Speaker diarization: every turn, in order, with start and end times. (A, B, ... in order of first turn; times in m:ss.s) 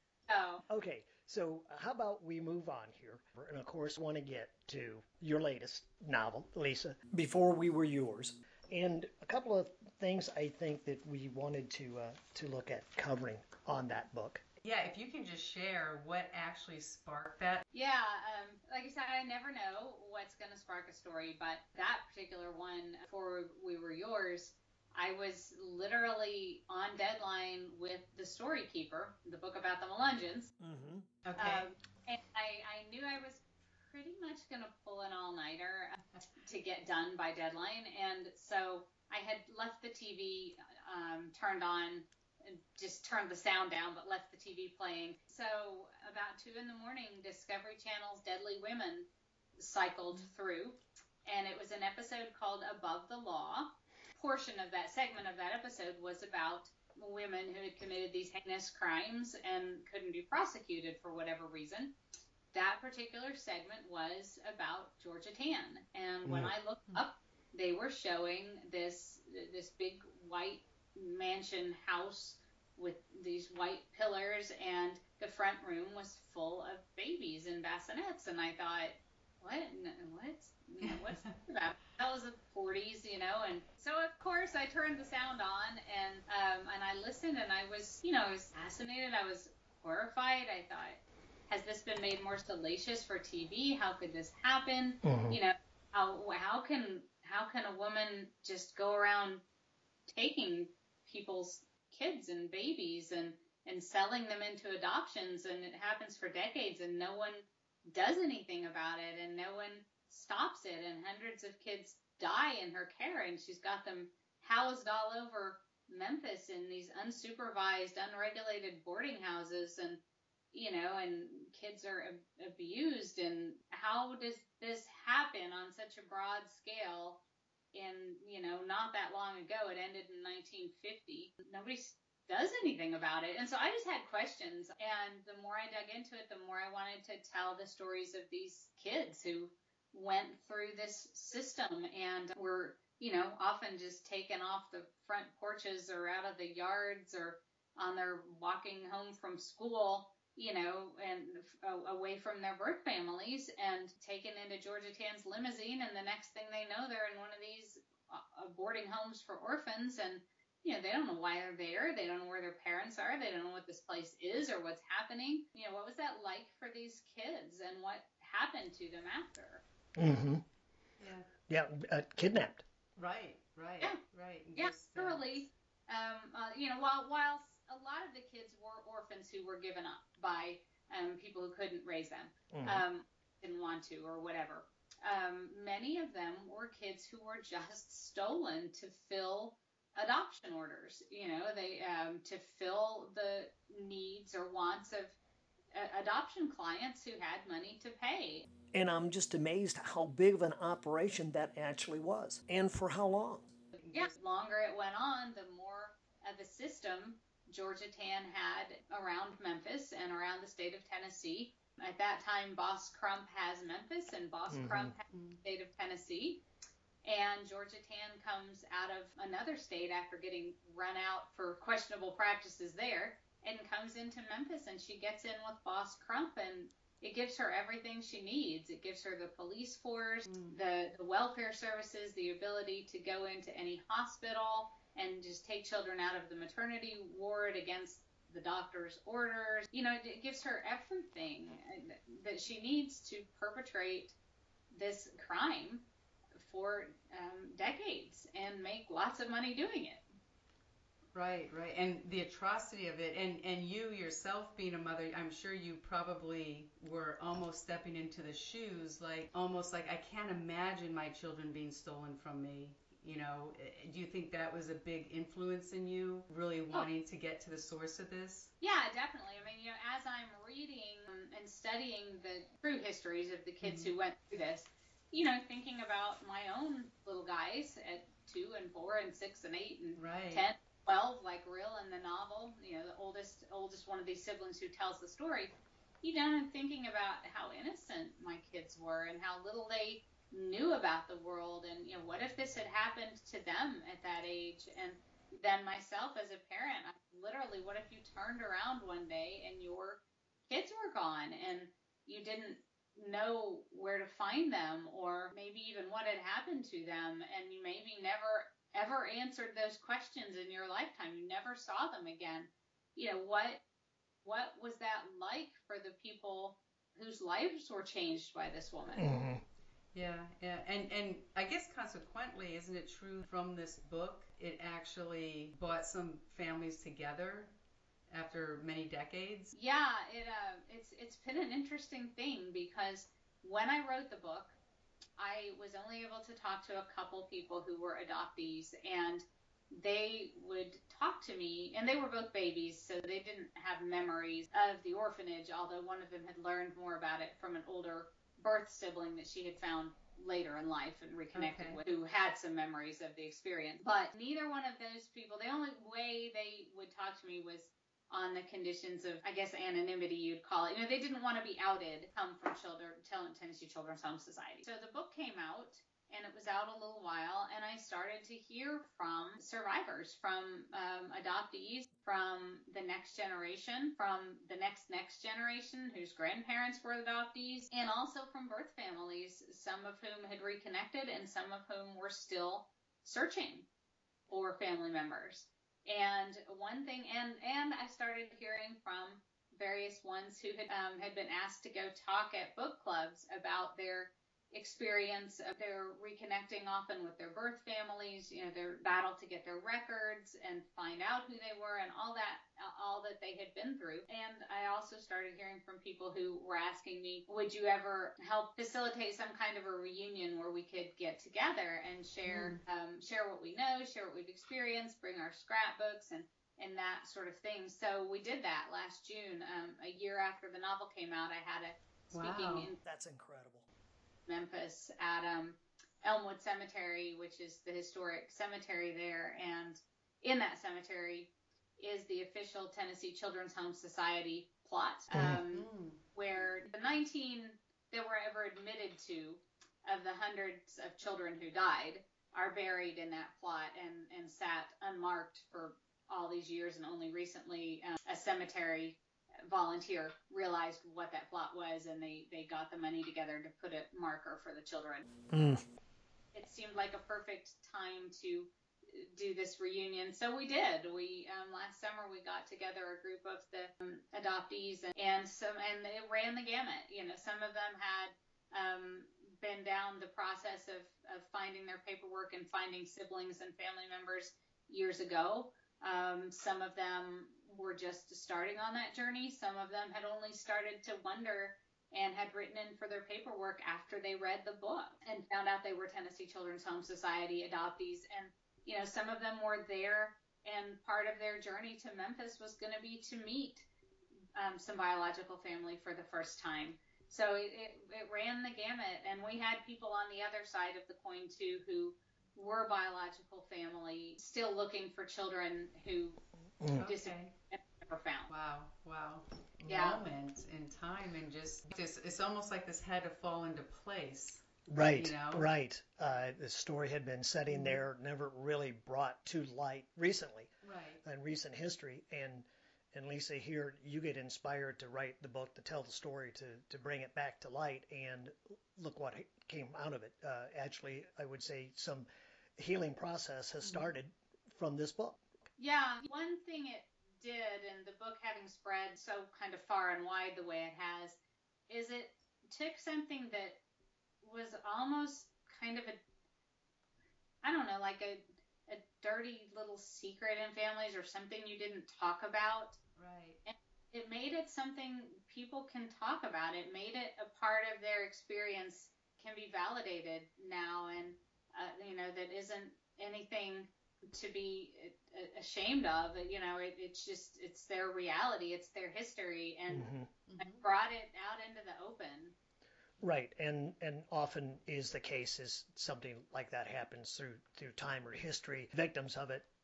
0:00.3-0:00.6 A
0:00.7-0:14.4 B
0:14.6-0:17.6 C
0:17.7-0:30.5 A
0:30.6-0:31.1 B
0:31.2-0:31.7 C
0:31.4-0:49.1 A
0:49.6-1:01.9 A
1:02.5-1:39.4 A
1:06.2-1:06.5 B
1:20.8-1:21.3 C
1:35.0-1:35.4 B
1:40.1-2:00.0 A
2:00.5-2:07.2 A
2:07.7-2:49.6 A
2:50.0-2:50.4 B
2:51.0-2:51.3 C
2:51.5-2:52.6 B
2:53.0-2:55.4 C
2:54.5-3:15.2 A
3:02.5-3:02.8 B
3:15.7-3:18.4 A
3:18.7-3:23.5 B
3:23.8-3:24.1 C
3:23.9-3:36.4 A
3:34.5-3:34.9 B
3:35.1-3:35.4 C
3:37.0-4:04.2 A
3:50.3-3:50.6 C
4:04.7-4:05.8 A
4:06.4-4:10.0 A
4:11.1-4:28.5 C
4:28.6-5:13.6 A
4:33.6-4:33.9 C
4:40.0-4:40.4 C
5:14.2-5:19.1 A
5:19.0-5:19.4 B
5:19.9-5:27.5 C
5:28.1-5:29.5 C
5:29.5-5:34.6 A
5:35.2-6:23.7 A
5:51.3-5:51.8 C
6:24.3-7:02.8 A
6:52.2-6:52.6 C
7:02.1-7:02.7 C
7:02.8-7:03.6 B
7:04.2-7:35.1 A
7:15.1-7:15.4 B
7:15.2-7:16.0 C
7:35.3-7:35.6 B
7:36.3-8:13.7 A
8:14.3-8:26.2 A
8:26.6-8:26.9 B
8:26.7-8:27.3 C
8:26.8-8:28.3 A
8:28.3-8:35.4 C
8:29.7-8:30.0 A
8:34.7-8:40.5 B
8:37.5-8:37.8 C
8:40.6-8:41.0 C
8:41.0-8:55.2 B
8:53.6-8:53.9 C
8:55.6-9:01.2 A
9:01.7-9:03.6 A
9:04.2-9:06.0 A
9:07.4-9:12.8 A
9:13.0-9:13.4 C
9:13.4-9:29.9 A
9:29.7-9:30.1 B
9:30.3-9:30.6 C
9:30.4-9:32.4 A
9:33.0-9:39.4 B